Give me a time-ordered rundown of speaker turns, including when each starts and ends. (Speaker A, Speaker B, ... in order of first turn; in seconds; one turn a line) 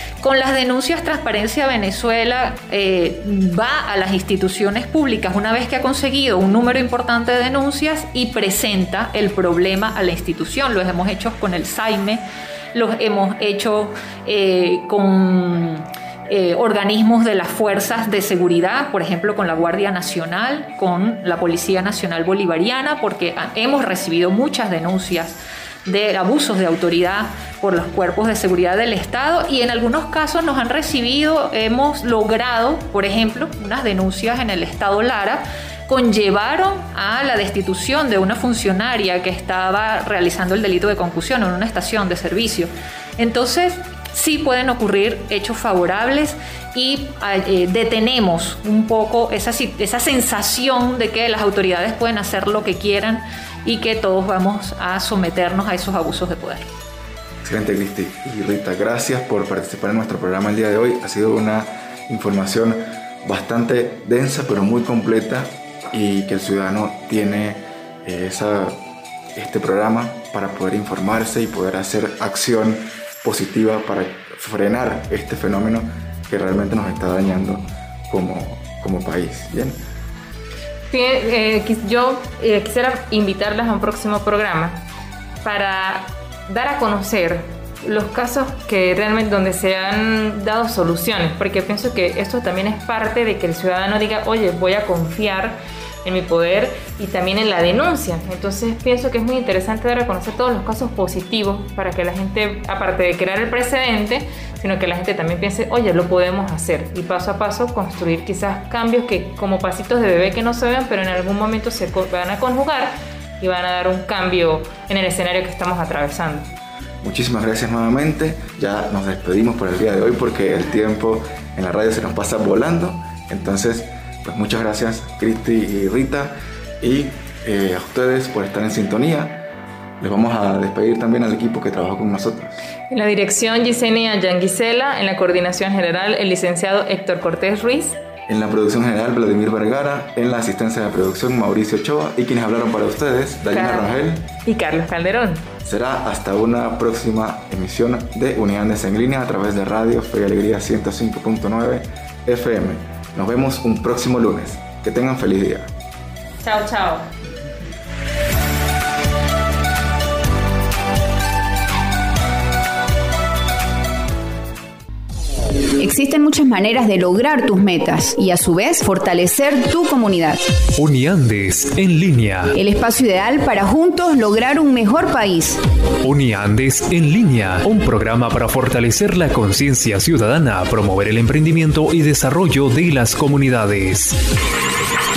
Speaker A: 0.2-56.7
Speaker B: 57.4-68.8
Speaker B: 69.3-79.8
Speaker C: 80.9-84.8
Speaker C: 85.4-116.5
Speaker B: 117.0-129.5
Speaker B: 130.0-132.6
Speaker C: 132.9-138.0
Speaker B: 138.3-144.2
Speaker C: 143.5-143.9
Speaker C: 144.4-145.5
Speaker B: 145.6-155.7
Speaker C: 156.4-157.1
Speaker D: 165.8-170.4
Speaker E: 170.8-172.5
Speaker D: 172.5-175.6
Speaker E: 176.0-184.2